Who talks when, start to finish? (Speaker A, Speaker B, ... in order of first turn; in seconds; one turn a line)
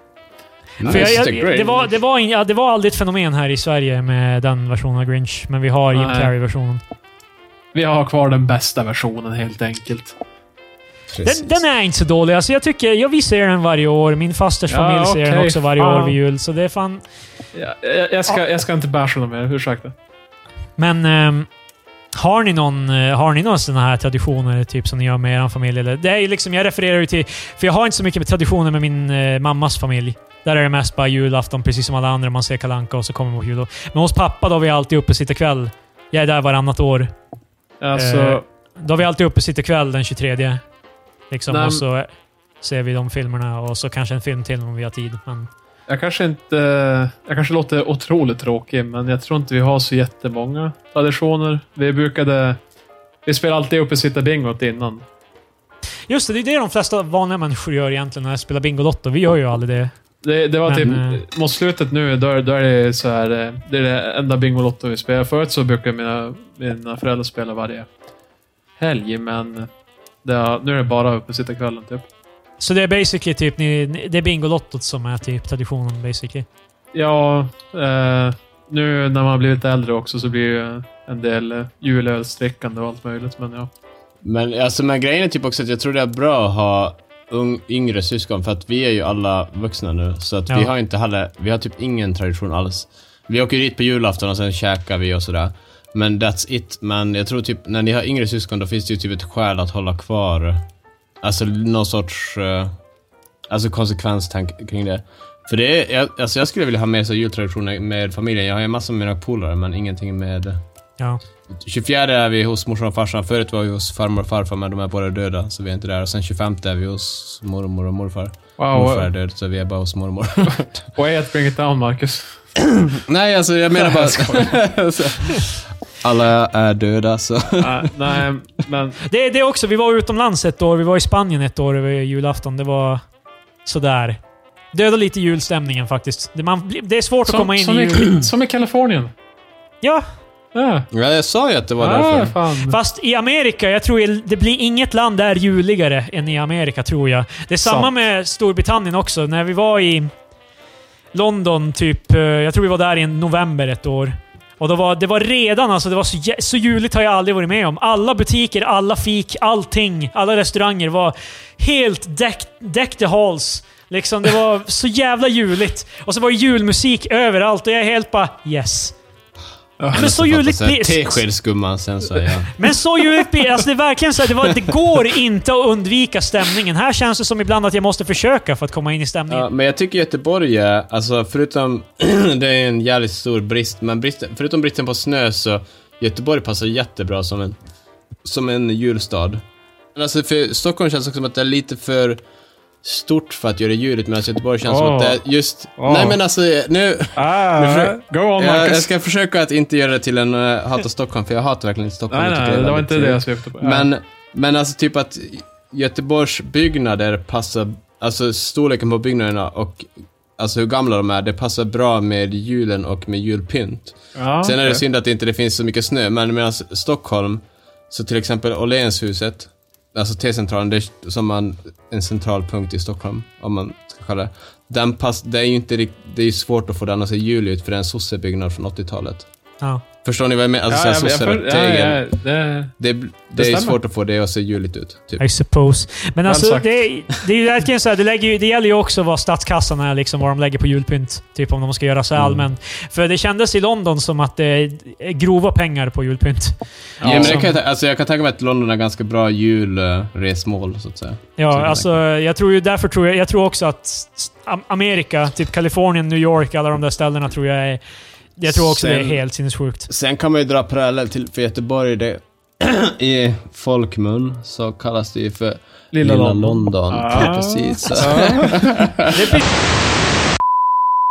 Speaker A: 0.8-1.9
Speaker B: 0.8-6.8
Speaker C: 5.9-6.3
Speaker C: 7.7-10.2
Speaker A: 11.1-11.6
Speaker B: 11.2-17.0
Speaker C: 14.7-16.2
Speaker C: 17.5-19.9
Speaker B: 20.8-21.5
Speaker B: 22.1-37.1
Speaker C: 37.8-38.4
Speaker B: 38.0-40.6
Speaker B: 41.3-42.1
Speaker C: 41.5-41.8
Speaker B: 42.6-45.5
Speaker C: 45.9-52.6
Speaker C: 53.2-55.0
Speaker B: 56.1-59.9
Speaker C: 60.2-67.9
Speaker B: 60.7-61.2
Speaker C: 68.8-69.7
Speaker C: 70.2-72.0
Speaker B: 72.6-76.5
Speaker C: 76.9-83.7
Speaker A: 84.2-100.6
Speaker A: 101.2-102.7
Speaker A: 103.5-110.6
Speaker A: 111.6-120.8
Speaker C: 118.6-119.1
Speaker C: 120.9-122.3
Speaker A: 122.8-127.9
Speaker C: 123.7-124.5
Speaker C: 127.6-129.0
Speaker B: 129.1-133.0
Speaker B: 133.6-134.2
Speaker B: 134.7-138.2
Speaker C: 137.2-139.1
Speaker C: 140.5-140.9
Speaker A: 140.9-142.3
Speaker C: 141.8-142.8
Speaker B: 142.6-150.1
Speaker C: 147.6-147.9
Speaker B: 151.1-168.9
Speaker C: 169.8-170.1
Speaker B: 169.9-171.2
Speaker A: 169.9-172.5
Speaker B: 172.6-179.5
Speaker A: 179.3-187.6
Speaker A: 188.2-189.4
Speaker A: 189.9-192.2
Speaker A: 192.8-229.3
Speaker C: 194.6-195.2
Speaker C: 195.8-196.2
Speaker C: 197.1-198.9
Speaker C: 202.1-203.9
Speaker C: 214.1-214.8
Speaker A: 230.0-232.0
Speaker C: 230.7-232.7
Speaker A: 232.8-235.2
Speaker C: 233.3-233.8
Speaker B: 235.2-247.5
Speaker C: 236.2-236.7
Speaker A: 242.2-242.4
Speaker C: 247.0-247.5
Speaker A: 247.0-252.0
Speaker B: 251.4-257.8
Speaker B: 258.4-259.9
Speaker A: 258.4-259.2
Speaker A: 259.9-269.4
Speaker C: 265.9-268.7
Speaker B: 269.1-269.5